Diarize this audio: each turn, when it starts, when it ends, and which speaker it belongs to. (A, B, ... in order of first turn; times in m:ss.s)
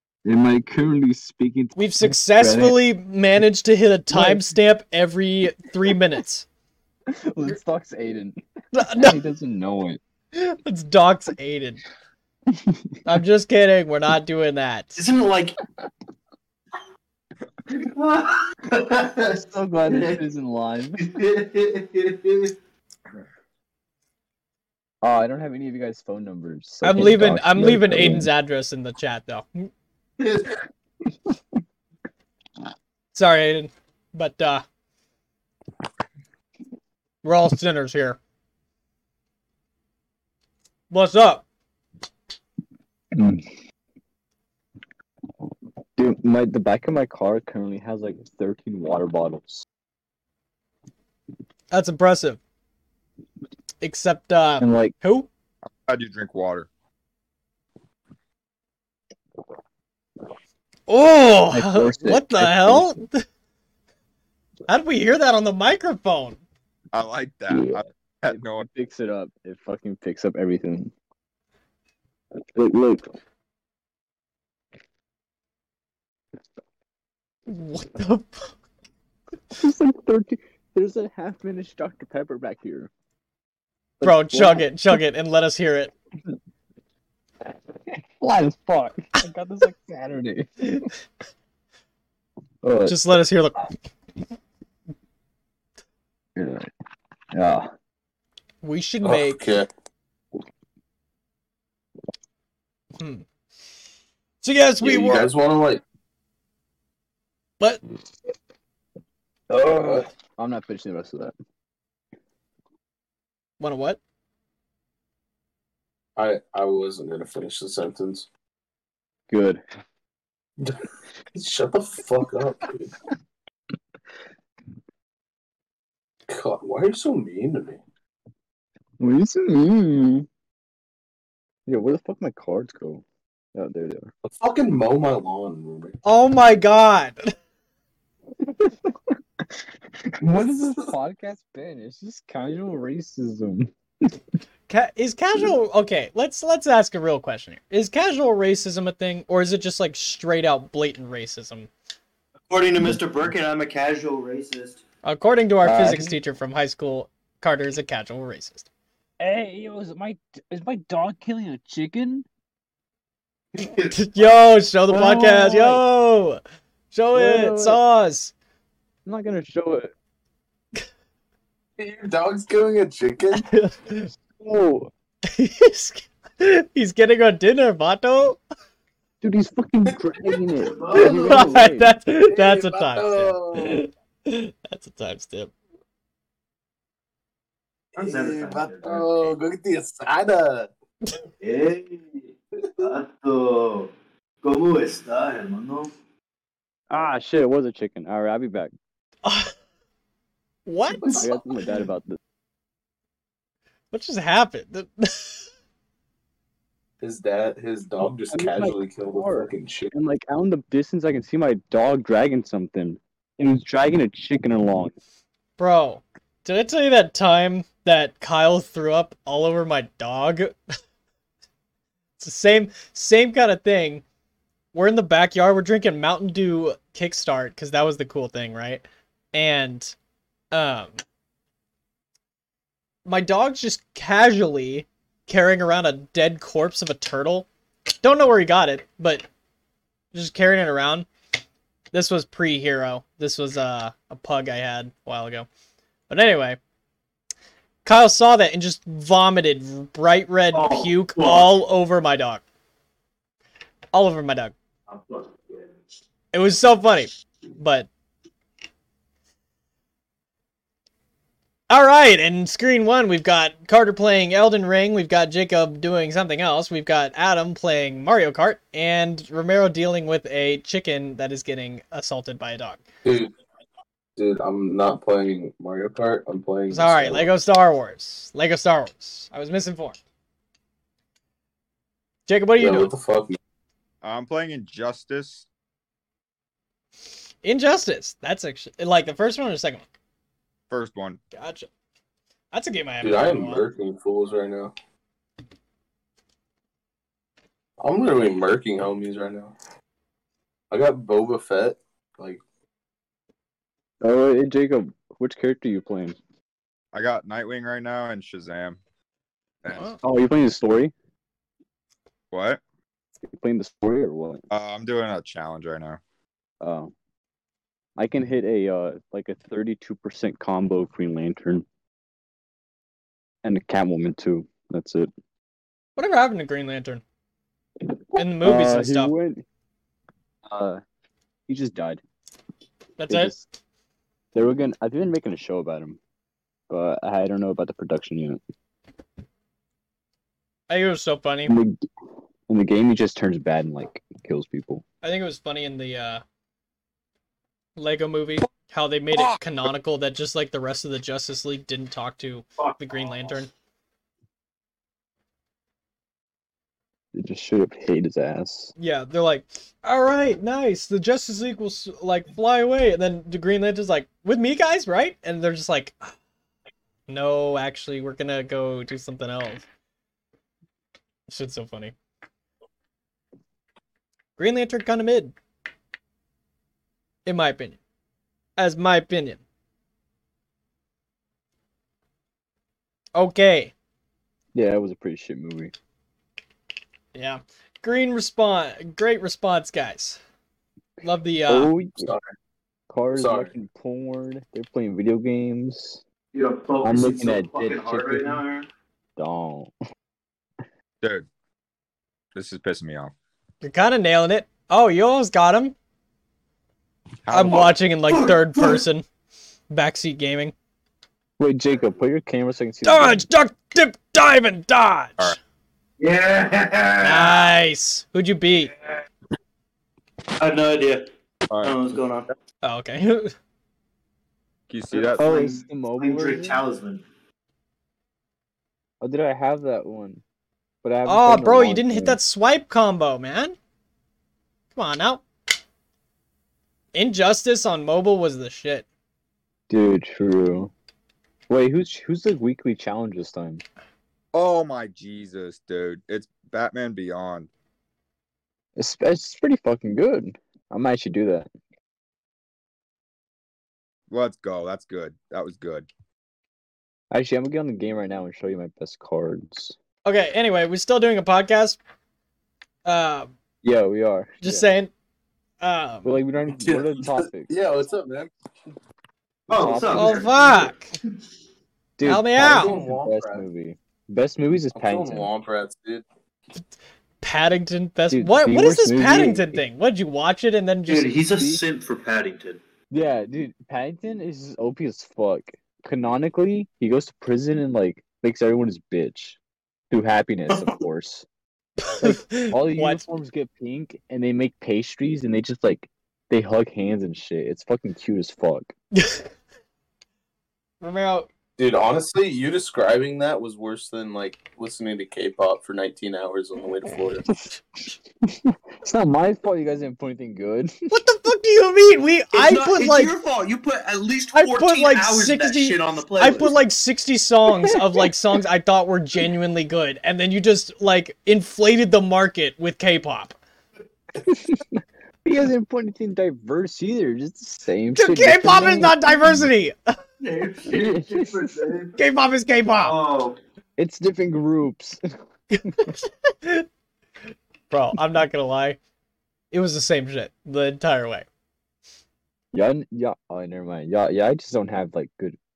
0:00.2-0:02.8 A
0:01.8-0:06.5 B
0:04.1-0:04.5 A
0:07.1-0:10.0 A
0:08.8-0:09.2 B
0:10.4-0:11.8 B
0:12.5-0:12.8 A
0:13.0-0:15.0 B
0:15.0-0:15.6 C
0:17.7-0:20.2 C
0:19.3-0:21.1 A
0:21.0-0:22.5 C
0:25.0-0:28.3 A
0:26.8-0:29.7 B
0:30.2-0:30.5 C
0:33.1-0:34.6 B
0:37.2-0:38.2 B
0:40.9-0:41.4 B
0:43.1-0:43.5 A
0:46.0-0:49.7 A
0:51.7-0:52.4 B
0:53.8-0:55.3 B
0:54.6-0:55.0 A
0:55.8-0:56.7 D
1:00.9-1:03.2 B
1:01.5-1:03.0 A
1:04.7-1:06.4 B
1:06.9-1:08.7 D
1:07.5-1:10.9 A
1:12.6-1:13.1 A
1:17.5-1:18.5 B
1:19.5-1:22.9 A
1:24.0-1:25.0 A
1:24.0-1:25.9 B
1:27.9-1:30.9 A
1:32.6-1:33.2 A
1:32.9-1:33.7 B
1:36.4-1:36.7 A
1:37.3-1:37.7 A
1:38.6-1:39.5 B
1:39.0-1:39.7 E
1:43.0-1:43.2 B
1:44.4-1:45.3 B
1:44.8-1:45.8 E
1:49.5-1:51.4 A
1:49.7-1:50.1 E
1:53.6-1:54.0 B
1:56.2-1:58.3 E
1:59.3-1:59.6 A
2:01.4-2:02.9 E
2:06.3-2:07.8 E
2:09.0-2:10.3 A
2:11.7-2:14.1 A
2:14.2-2:16.0 E
2:16.0-2:17.2 B
2:18.4-2:19.1 A
2:20.0-2:24.2 A
2:24.7-2:31.7 B
2:32.5-2:34.8 C
2:35.0-2:38.7 B
2:35.6-2:36.2 A
2:39.2-2:42.3 A
2:43.9-2:48.3 B
2:44.9-2:45.8 A
2:47.1-2:47.8 A
2:49.0-2:49.9 A
2:51.8-2:53.5 E
2:53.4-2:54.1 B
2:54.4-2:54.9 A
2:55.3-2:58.4 B
2:59.2-3:02.0 A
3:00.6-3:01.4 C
3:00.7-3:01.5 E
3:01.0-3:05.5 B
3:02.3-3:03.8 E
3:08.0-3:10.7 E
3:08.0-3:09.3 C
3:11.4-3:13.9 C
3:14.4-3:15.9 C
3:16.9-3:18.7 A
3:19.2-3:19.5 B
3:20.7-3:21.3 B
3:21.1-3:22.2 A
3:23.9-3:25.5 B
3:27.0-3:29.9 E
3:28.3-3:34.9 A
3:35.6-3:40.6 B
3:42.2-3:44.0 B
3:44.7-3:50.0 B
3:50.5-3:51.0 B
3:53.1-3:57.5 B
3:58.0-3:59.3 B
4:00.1-4:01.1 B
4:01.9-4:05.5 B
4:06.1-4:06.6 B
4:07.8-4:12.4 B
4:10.5-4:11.5 C
4:13.9-4:14.6 B
4:14.9-4:15.3 C
4:16.3-4:17.9 B
4:21.7-4:32.8 B
4:33.0-4:33.3 E
4:34.2-4:37.3 E
4:36.7-4:40.0 B
4:42.3-4:42.9 B
4:42.6-4:43.4 E
4:44.0-4:45.5 D
4:47.4-4:49.9 B
4:50.7-4:51.2 D
4:51.4-4:51.7 B
4:52.5-4:53.6 B
4:53.0-4:54.7 E
4:57.8-4:59.5 E
5:00.7-5:02.4 E
5:04.0-5:06.2 A
5:06.9-5:08.8 D
5:09.6-5:10.0 D
5:10.0-5:10.9 A
5:12.3-5:12.6 D
5:13.2-5:14.4 A
5:14.5-5:16.0 D
5:16.6-5:16.9 A
5:18.0-5:21.7 A
5:23.4-5:25.1 A
5:26.0-5:27.0 B
5:27.9-5:29.4 A
5:28.2-5:29.1 B
5:30.5-5:30.8 A
5:31.5-5:32.0 A
5:33.0-5:33.3 B
5:33.1-5:33.5 A
5:34.3-5:36.0 A
5:36.7-5:38.4 A
5:40.7-5:41.6 B
5:41.5-5:41.8 A
5:42.5-5:44.8 A
5:45.0-5:46.2 B
5:47.8-5:53.5 B
5:57.1-5:58.7 A
5:58.8-6:06.1 B
6:07.1-6:09.7 B
6:11.3-6:11.9 B
6:14.4-6:15.3 B
6:17.3-6:17.8 B
6:18.6-6:19.4 B
6:23.2-6:23.7 B
6:24.5-6:25.7 A
6:27.1-6:30.2 B
6:31.0-6:31.7 B
6:31.5-6:32.1 A
6:32.9-6:36.0 A
6:33.2-6:33.5 E
6:36.3-6:38.7 C
6:36.8-6:38.4 A
6:39.2-6:39.7 A
6:41.0-6:41.3 D
6:42.4-6:43.1 D
6:43.6-6:45.8 B
6:47.3-6:47.8 D
6:47.3-6:49.0 B
6:48.1-6:48.8 C
6:49.7-6:50.5 B
6:51.4-6:53.2 A
6:52.8-6:55.4 B
6:56.0-6:57.5 C
6:57.0-6:58.7 B
7:00.4-7:01.1 C
7:01.5-7:02.3 D
7:01.6-7:02.3 C
7:02.6-7:03.3 B
7:04.7-7:05.4 D
7:04.9-7:07.0 C
7:05.2-7:06.6 A
7:09.0-7:10.2 A
7:10.8-7:12.2 A
7:11.1-7:13.6 B
7:14.8-7:15.2 B
7:16.9-7:18.9 B
7:19.7-7:20.7 A
7:21.5-7:23.6 A
7:24.3-7:27.5 D
7:28.8-7:31.5 A
7:34.1-7:35.9 D
7:37.1-7:39.8 A
7:40.0-7:41.8 B
7:42.8-7:43.3 B
7:43.6-7:44.7 A
7:44.4-7:44.9 B
7:45.6-7:46.2 B
7:46.0-7:47.5 A
7:46.6-7:48.3 E
7:49.5-7:50.7 C
7:49.5-7:50.4 A
7:50.0-7:50.9 B
7:52.0-7:55.3 A
7:52.0-7:52.8 B
7:52.4-7:53.4 E
7:54.8-7:56.0 E
7:57.2-8:01.1 B
7:58.1-7:59.6 A
8:00.9-8:02.6 C
8:01.4-8:01.6 A
8:02.9-8:09.4 A
8:09.9-8:11.3 A
8:11.8-8:13.0 B
8:12.0-8:18.7 A
8:19.0-8:19.2 B
8:20.8-8:21.3 B
8:21.6-8:27.2 E
8:27.3-8:27.6 A
8:28.3-8:30.9 A
8:30.9-8:33.1 B
8:32.3-8:36.5 C
8:34.3-8:43.4 B
8:37.6-8:38.1 A
8:44.2-8:49.5 A
8:48.0-8:49.8 B
8:50.2-8:52.0 C
8:50.7-8:51.5 A
8:52.0-8:52.9 B
8:52.8-8:53.4 C
8:53.8-8:55.0 A
8:55.5-8:56.7 B
8:57.7-8:58.8 B
8:59.5-9:01.3 B
9:02.5-9:05.4 A